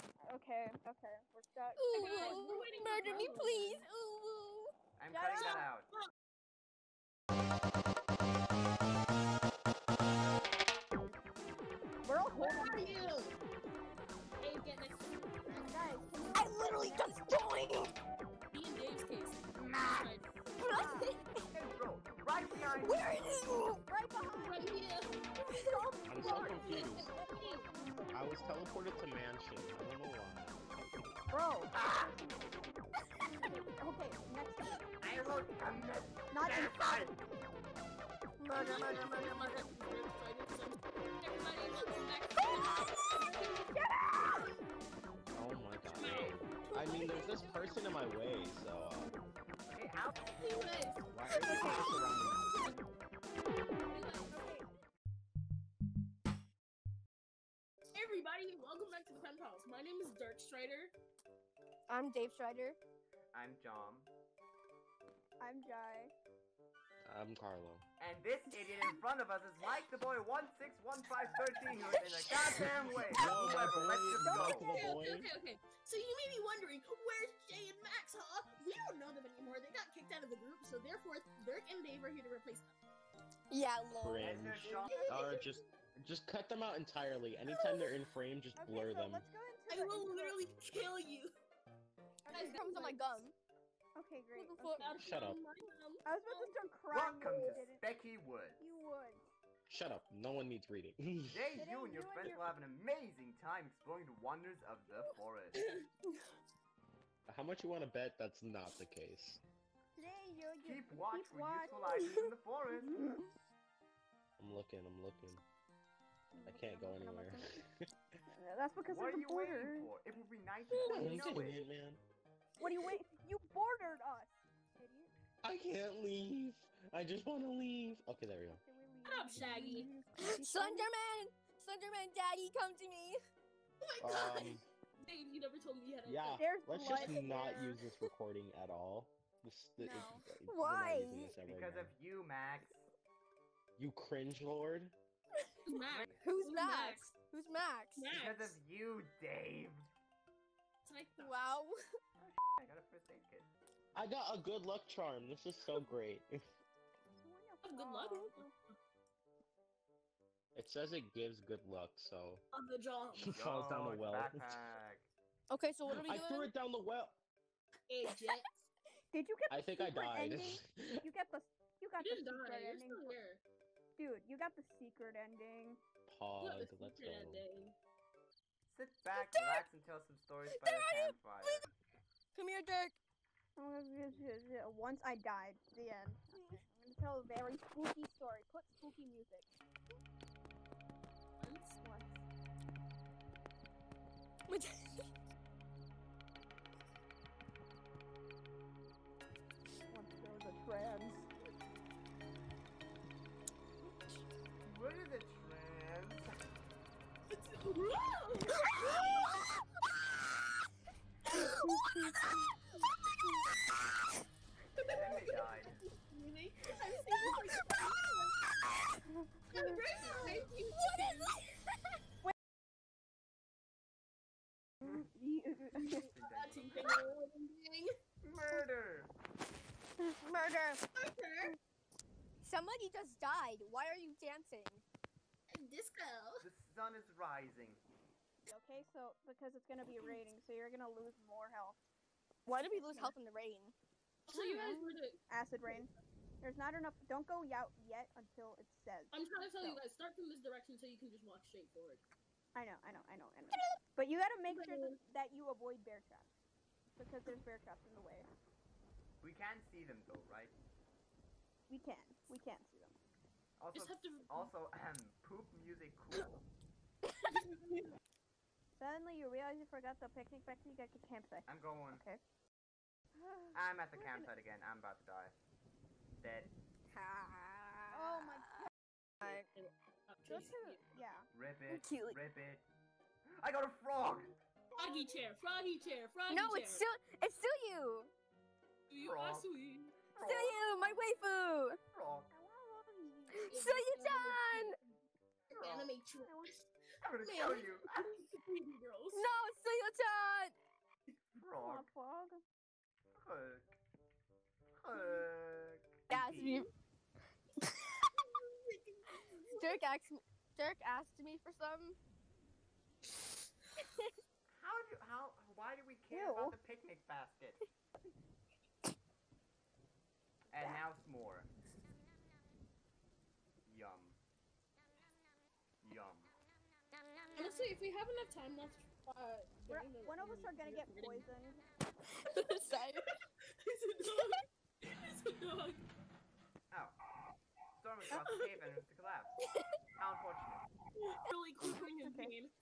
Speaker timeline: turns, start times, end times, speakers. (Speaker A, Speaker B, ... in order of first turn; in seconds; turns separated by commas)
Speaker A: 0.2-2.4, Speaker B: 1.8-4.7, Speaker C: 1.9-3.8, Speaker D: 5.0-5.9, Speaker A: 5.1-5.7, Speaker C: 5.3-6.1, Speaker A: 12.0-13.1, Speaker C: 12.3-13.4, Speaker C: 14.4-15.7, Speaker A: 15.5-17.2, Speaker B: 16.3-17.9, Speaker C: 18.5-20.2, Speaker D: 19.5-20.2, Speaker B: 20.6-21.4, Speaker A: 20.6-21.1, Speaker D: 21.5-23.2, Speaker B: 22.7-23.8, Speaker A: 23.9-24.8, Speaker C: 24.4-27.7, Speaker B: 25.5-25.8, Speaker E: 26.1-27.1, Speaker A: 27.7-28.1, Speaker E: 28.1-30.6, Speaker A: 31.3-32.6, Speaker D: 31.7-32.1, Speaker A: 33.8-34.9, Speaker D: 35.0-37.1, Speaker A: 36.3-37.4, Speaker B: 38.4-39.6, Speaker C: 38.5-43.6, Speaker B: 42.4-44.5, Speaker E: 45.3-49.1, Speaker C: 45.9-47.1, Speaker B: 46.9-47.4, Speaker D: 49.7-50.2, Speaker C: 50.3-51.0, Speaker E: 51.1-52.6, Speaker B: 51.3-52.0, Speaker C: 52.5-52.7, Speaker C: 53.9-54.3, Speaker A: 54.3-54.6, Speaker C: 57.9-60.9, Speaker B: 61.9-62.8, Speaker D: 63.3-64.1, Speaker A: 65.4-66.1, Speaker E: 67.0-67.8, Speaker D: 68.0-74.8, Speaker B: 71.8-72.8, Speaker E: 72.8-75.3, Speaker A: 74.2-75.0, Speaker C: 74.7-82.8, Speaker B: 83.5-84.3, Speaker E: 84.0-89.2, Speaker D: 84.2-85.1, Speaker A: 84.6-85.1, Speaker C: 84.8-85.6, Speaker C: 87.5-88.0, Speaker A: 88.6-90.5, Speaker C: 89.7-91.3, Speaker A: 92.2-93.0, Speaker B: 92.3-93.3, Speaker C: 92.3-93.0, Speaker A: 94.0-94.9, Speaker B: 94.3-95.0, Speaker C: 94.8-96.5, Speaker E: 95.0-95.4, Speaker A: 96.0-97.8, Speaker D: 96.9-98.6, Speaker C: 97.3-97.7, Speaker A: 98.6-99.2, Speaker E: 99.7-101.4, Speaker D: 101.3-105.7, Speaker A: 101.6-102.5, Speaker C: 105.5-105.8, Speaker E: 107.3-109.4, Speaker A: 110.0-112.2, Speaker D: 110.6-113.0, Speaker B: 111.9-112.3, Speaker A: 112.7-113.2, Speaker E: 114.4-115.4, Speaker A: 116.3-117.6, Speaker E: 116.4-117.6, Speaker A: 118.3-119.9, Speaker D: 118.9-121.6, Speaker C: 120.7-121.5, Speaker E: 120.8-122.0, Speaker A: 122.6-125.1, Speaker E: 125.4-128.6, Speaker A: 128.6-130.9, Speaker C: 129.1-129.9, Speaker B: 130.2-133.2, Speaker C: 133.8-136.4, Speaker E: 134.0-134.6, Speaker E: 136.0-141.9, Speaker A: 136.4-137.8, Speaker A: 139.8-140.2, Speaker B: 140.4-141.4, Speaker D: 141.4-142.9, Speaker E: 143.8-144.9, Speaker B: 145.4-148.1, Speaker C: 145.7-147.1, Speaker C: 147.9-148.6, Speaker D: 148.1-149.9, Speaker C: 150.8-151.3, Speaker B: 151.2-151.8, Speaker D: 152.2-153.5, Speaker E: 153.9-156.4, Speaker A: 157.1-158.5, Speaker C: 157.6-158.5, Speaker E: 160.5-162.4, Speaker C: 162.5-163.3, Speaker E: 163.2-164.5, Speaker D: 163.3-165.1, Speaker B: 165.5-166.5, Speaker E: 165.9-167.2, Speaker C: 167.9-168.6, Speaker B: 168.1-168.5, Speaker A: 169.1-173.2, Speaker E: 169.5-171.0, Speaker C: 172.0-173.4, Speaker A: 174.0-175.8, Speaker E: 176.1-177.4, Speaker C: 176.4-177.7, Speaker D: 178.7-181.7, Speaker B: 179.1-179.6, Speaker B: 180.5-181.6, Speaker B: 182.3-182.9, Speaker A: 183.6-189.5, Speaker C: 191.4-191.8, Speaker A: 191.8-192.2, Speaker B: 194.5-195.1, Speaker A: 199.9-201.3, Speaker D: 204.6-206.3, Speaker C: 207.3-209.3, Speaker B: 211.5-212.4, Speaker A: 211.6-212.1, Speaker C: 214.8-218.3, Speaker D: 214.9-215.8, Speaker A: 219.1-219.8, Speaker C: 219.5-221.4, Speaker B: 220.2-221.8, Speaker A: 224.8-226.1, Speaker C: 225.8-227.9, Speaker D: 226.0-227.0, Speaker D: 228.2-229.1, Speaker B: 230.2-230.8, Speaker C: 230.9-231.6, Speaker B: 232.4-234.8, Speaker C: 235.5-236.4, Speaker D: 236.4-237.8, Speaker A: 238.5-241.8, Speaker B: 242.4-243.7, Speaker A: 242.5-243.2, Speaker C: 244.3-245.9, Speaker A: 244.3-245.9, Speaker A: 246.4-249.8, Speaker C: 249.1-252.0, Speaker A: 252.5-256.3, Speaker C: 254.5-255.0, Speaker A: 256.9-258.3, Speaker D: 259.2-260.6, Speaker A: 261.7-263.0, Speaker D: 263.6-266.4, Speaker C: 263.7-264.5, Speaker C: 267.2-267.9, Speaker A: 268.7-272.2, Speaker D: 271.5-272.0, Speaker A: 273.1-274.3, Speaker D: 273.5-275.3, Speaker D: 276.2-276.5, Speaker B: 276.9-278.7, Speaker A: 277.9-278.7, Speaker B: 279.2-279.5, Speaker C: 279.2-280.8, Speaker A: 280.2-281.3, Speaker D: 281.3-282.6, Speaker B: 281.7-282.2, Speaker D: 283.4-284.3, Speaker A: 284.8-285.1, Speaker C: 284.8-286.9, Speaker B: 286.3-288.1, Speaker C: 288.9-290.1, Speaker D: 289.0-289.5, Speaker B: 290.1-291.8, Speaker D: 290.2-290.6, Speaker D: 291.9-292.3, Speaker A: 292.3-293.5, Speaker B: 293.3-294.8, Speaker C: 293.5-294.8, Speaker C: 295.5-296.5, Speaker D: 295.6-295.9, Speaker D: 297.0-298.1, Speaker C: 297.1-299.3, Speaker B: 299.1-300.5, Speaker D: 301.3-301.9, Speaker A: 301.6-302.4, Speaker D: 303.1-303.7, Speaker D: 304.8-306.6, Speaker B: 306.1-306.7, Speaker B: 307.6-308.1, Speaker C: 308.2-309.8, Speaker B: 309.5-312.0, Speaker B: 313.8-314.1, Speaker D: 314.5-317.6, Speaker A: 316.1-316.6, Speaker D: 320.5-321.5, Speaker D: 323.6-324.2, Speaker D: 325.8-326.3, Speaker C: 327.3-331.2, Speaker A: 329.7-331.6, Speaker B: 332.1-333.1, Speaker C: 333.6-335.8, Speaker B: 334.0-334.4, Speaker D: 336.7-336.9, Speaker D: 337.8-339.3, Speaker C: 338.1-338.8, Speaker B: 339.4-339.8, Speaker D: 340.0-340.6, Speaker C: 340.9-342.5, Speaker A: 341.7-342.4